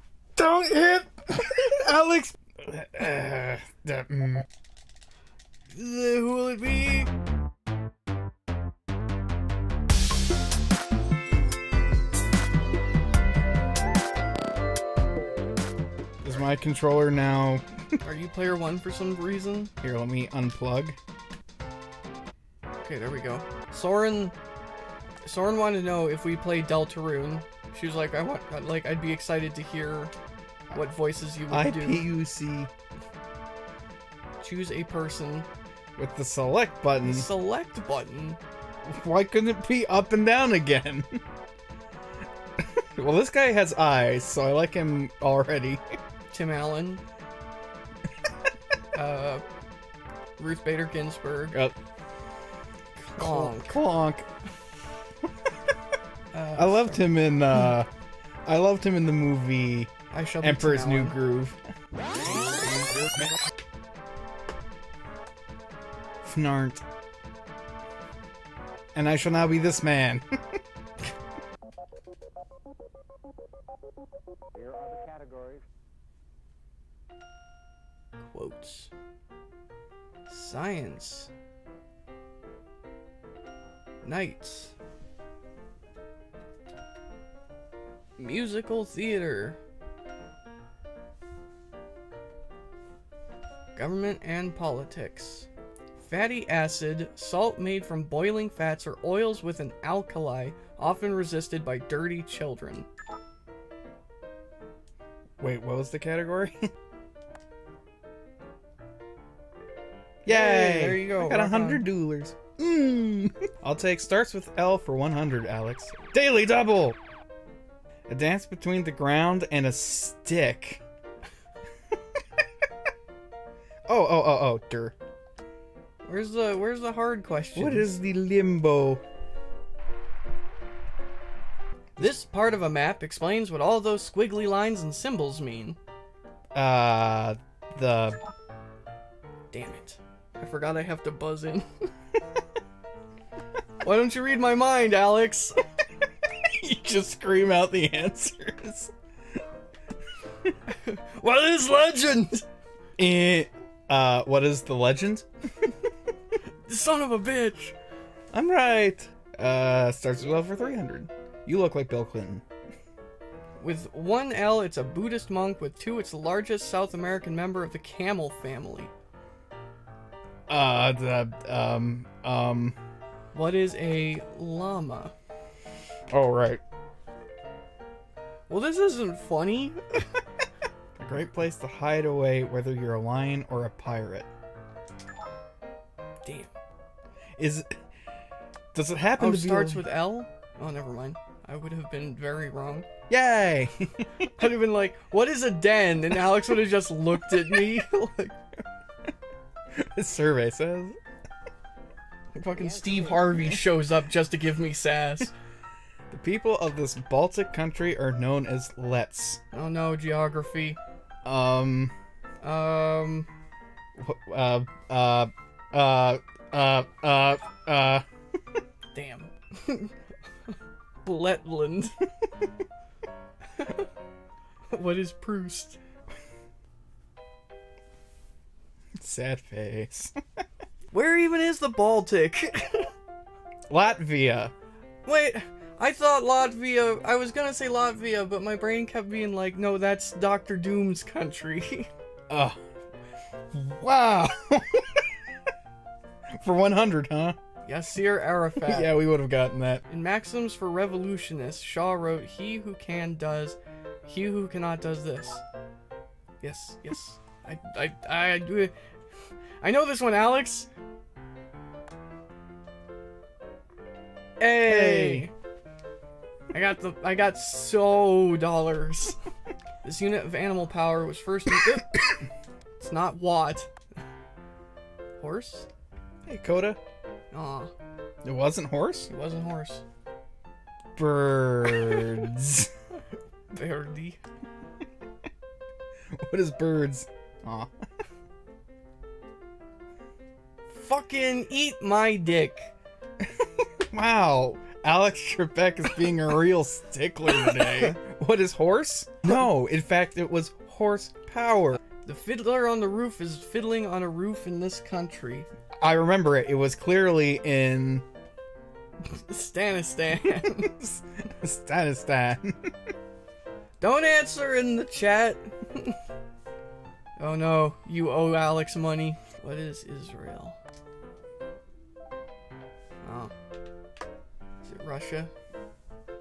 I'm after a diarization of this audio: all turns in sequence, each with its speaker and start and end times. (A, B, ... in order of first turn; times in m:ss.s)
0:00.4-0:04.4 A
0:05.7-0:07.1 B
0:16.2-0:17.6 A
0:18.0-0:19.7 B
0:19.8-0:21.0 A
0:22.8-0:24.3 B
0:25.2-0:30.1 B
0:30.7-0:32.0 B
0:31.5-0:32.7 A
0:34.4-0:35.5 B
0:36.0-0:37.3 A
0:37.0-0:38.4 B
0:38.8-0:41.2 A
0:42.6-0:45.8 A
0:46.3-0:47.0 B
0:48.9-0:49.4 B
0:50.4-0:51.5 B
0:53.0-0:53.8 B
0:53.2-0:54.3 A
0:56.3-0:57.1 B
0:56.6-0:57.9 A
0:58.4-1:01.6 A
1:00.1-1:01.2 B
1:06.2-1:06.8 A
1:08.9-1:10.2 A
1:18.2-1:18.9 B
1:20.3-1:21.3 B
1:24.0-1:24.7 B
1:28.2-1:29.6 B
1:33.7-1:42.9 B
1:45.4-1:46.7 A
1:50.2-1:57.0 A
1:50.3-1:51.8 B
1:58.1-2:00.8 A
2:03.9-2:04.9 A
2:06.0-2:08.0 B
2:07.5-2:09.0 A
2:12.0-2:15.8 B
2:16.5-2:18.2 A
2:19.5-2:21.9 B
2:23.8-2:25.6 B
2:26.5-2:28.9 A
2:30.7-2:32.4 B
2:33.0-2:35.3 A
2:36.7-2:37.7 B
2:38.3-2:42.4 A
2:43.6-2:48.9 B
2:50.5-2:52.8 A
2:53.3-2:55.1 B
2:56.1-2:56.6 A
2:58.5-3:00.1 B
3:01.0-3:04.3 A
3:06.2-3:06.5 B
3:07.4-3:07.7 A
3:08.7-3:09.8 A
3:09.2-3:12.9 B
3:13.1-3:14.3 A
3:14.3-3:18.4 B
3:19.7-3:21.0 A
3:22.3-3:25.3 B
3:23.1-3:23.5 A
3:26.1-3:29.4 A
3:29.5-3:30.8 B
3:31.2-3:31.9 A
3:32.4-3:33.3 B
3:34.0-3:38.0 A
3:38.9-3:39.9 B
3:41.0-3:42.1 B
3:43.6-3:43.8 B
3:44.7-3:45.8 B
3:49.0-3:50.1 A
3:50.9-3:52.9 B
3:53.7-3:54.5 A
3:55.0-4:01.9 B
4:02.3-4:02.6 A
4:03.5-4:05.1 A
4:06.4-4:07.4 A
4:07.6-4:08.9 B
4:08.6-4:09.8 A
4:09.9-4:15.4 B
4:16.4-4:18.7 B
4:19.6-4:20.7 B
4:24.4-4:25.3 B
4:24.6-4:25.3 A
4:26.5-4:29.2 B
4:29.8-4:31.9 B
4:32.8-4:33.7 B
4:35.2-4:35.7 B
4:36.2-4:36.8 A
4:37.3-4:37.7 B
4:38.2-4:39.1 A
4:39.1-4:39.8 B
4:40.9-4:42.7 A
4:43.5-4:44.2 B
4:46.2-4:47.7 A
4:50.7-4:52.7 B
4:53.2-5:01.8 A
4:57.5-4:57.9 B
5:02.0-5:05.5 B
5:05.8-5:08.0 A
5:09.0-5:10.7 B
5:10.6-5:12.7 A
5:13.8-5:16.0 B
5:17.2-5:20.6 B
5:23.0-5:23.3 B
5:24.6-5:25.3 B